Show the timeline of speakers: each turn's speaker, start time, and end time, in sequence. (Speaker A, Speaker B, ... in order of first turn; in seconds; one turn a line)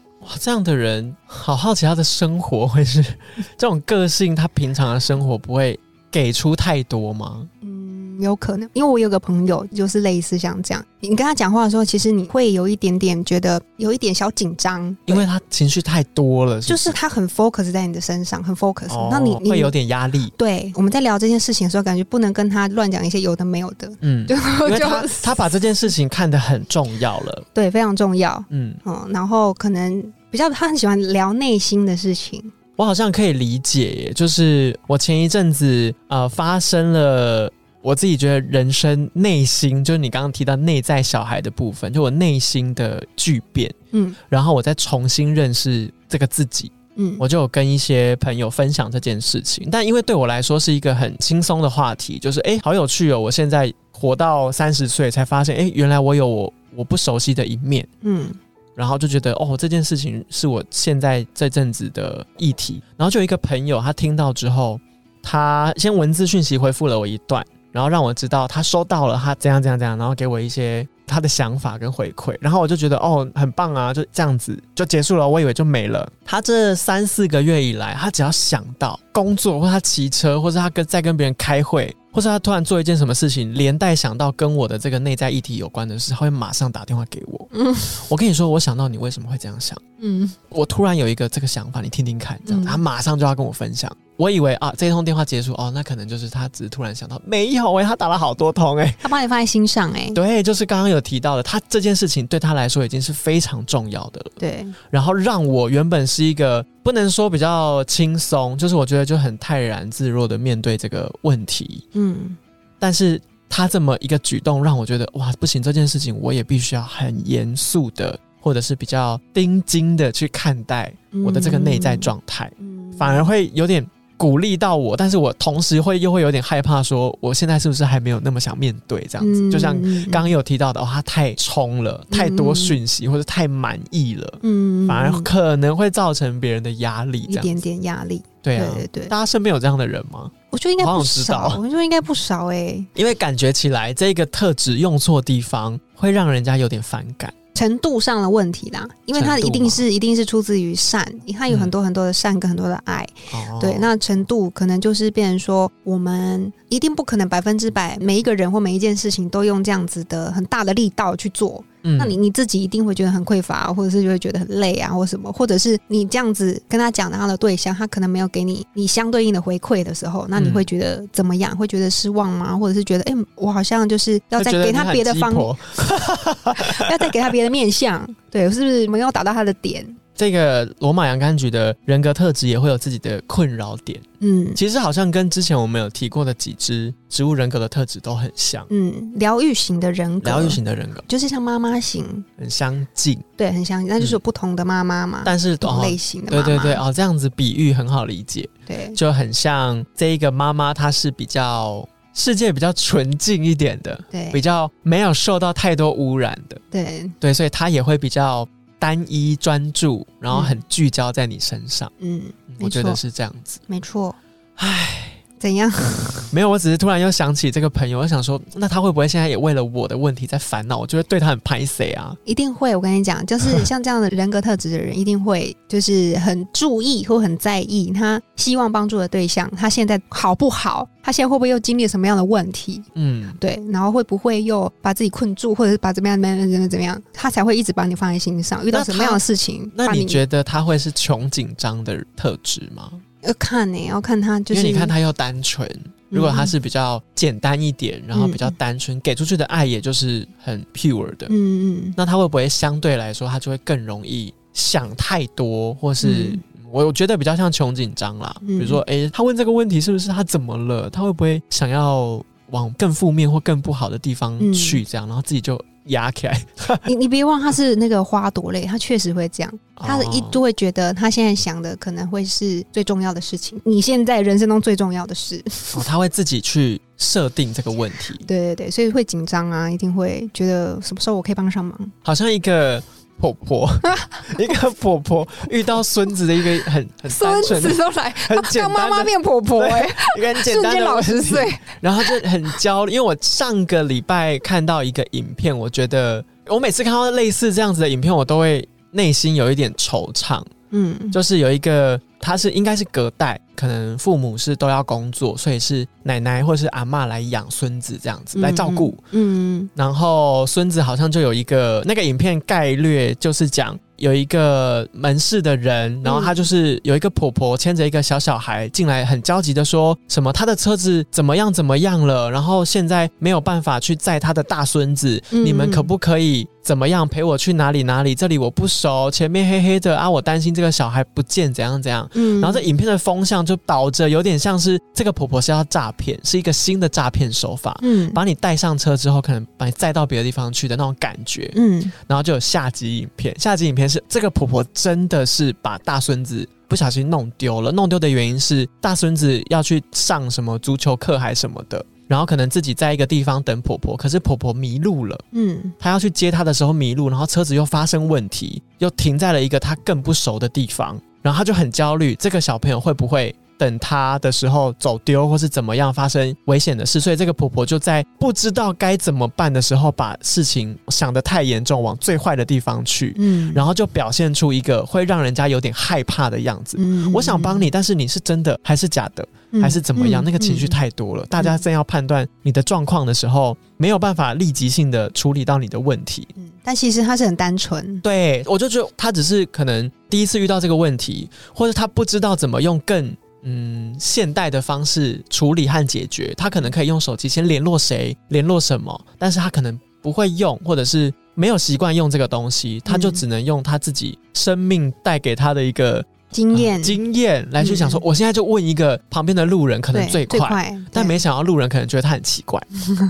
Speaker A: 0.2-7.5
Speaker B: 7.6-15.3
Speaker A: 15.1-17.0
Speaker B: 16.6-19.7
Speaker A: 18.9-20.3
Speaker B: 20.3-25.6
Speaker A: 24.0-27.4
Speaker B: 27.5-32.5
Speaker A: 28.5-28.8
Speaker A: 32.8-43.7
Speaker A: 44.3-57.9
Speaker B: 47.0-47.2
Speaker B: 58.0-58.4
Speaker A: 58.8-89.8
Speaker B: 87.5-88.0
Speaker B: 90.0-90.3
Speaker A: 90.5-99.1
Speaker B: 92.5-92.8
Speaker B: 99.0-100.2
Speaker A: 100.1-104.3
Speaker B: 104.4-104.7
Speaker A: 104.9-111.8
Speaker B: 111.9-112.4
Speaker A: 112.8-137.6
Speaker B: 121.1-123.3
Speaker B: 129.2-130.3
Speaker B: 132.1-132.8
Speaker B: 134.4-135.3
Speaker B: 137.2-139.1
Speaker A: 138.4-141.6
Speaker B: 140.5-142.9
Speaker A: 142.9-147.3
Speaker B: 147.5-175.5
Speaker A: 149.1-149.8
Speaker A: 153.3-153.9
Speaker A: 161.8-162.2
Speaker A: 170.3-170.6
Speaker A: 174.4-176.8
Speaker B: 176.6-180.0
Speaker A: 180.2-184.0
Speaker B: 184.2-184.6
Speaker A: 184.6-188.7
Speaker B: 188.7-192.2
Speaker A: 190.2-191.1
Speaker A: 192.4-193.2
Speaker B: 193.4-196.8
Speaker A: 195.2-206.6
Speaker B: 198.7-199.0
Speaker B: 204.1-204.4
Speaker B: 206.7-207.2
Speaker A: 207.2-211.9
Speaker B: 210.3-210.6
Speaker B: 212.0-213.0
Speaker A: 212.5-213.6
Speaker B: 213.7-214.2
Speaker A: 214.6-215.2
Speaker B: 215.4-216.3
Speaker A: 216.3-222.2
Speaker B: 222.2-240.2
Speaker A: 232.9-233.4
Speaker A: 238.7-239.2
Speaker A: 239.7-243.0
Speaker B: 243.2-244.9
Speaker A: 244.5-251.3
Speaker B: 246.1-246.5
Speaker B: 248.1-248.5
Speaker B: 251.3-251.9
Speaker A: 251.9-266.9
Speaker B: 256.0-256.4
Speaker B: 258.4-258.8
Speaker B: 264.4-264.8
Speaker B: 266.8-275.9
Speaker A: 269.8-270.4
Speaker A: 275.7-278.3
Speaker B: 278.2-281.9
Speaker A: 282.0-300.5
Speaker B: 287.1-292.1
Speaker B: 300.7-301.2
Speaker A: 301.1-309.0
Speaker B: 308.3-309.7
Speaker A: 309.8-355.2
Speaker B: 316.0-316.4
Speaker B: 325.3-325.9
Speaker B: 332.1-332.7
Speaker B: 337.8-338.2
Speaker B: 341.5-341.9
Speaker B: 355.3-355.7
Speaker A: 355.8-386.3
Speaker B: 373.1-373.6
Speaker B: 376.8-377.7
Speaker B: 379.5-380.8
Speaker B: 386.4-388.0
Speaker A: 388.0-412.7
Speaker B: 402.9-403.2
Speaker B: 406.3-407.0
Speaker B: 407.6-408.0
Speaker B: 409.9-411.2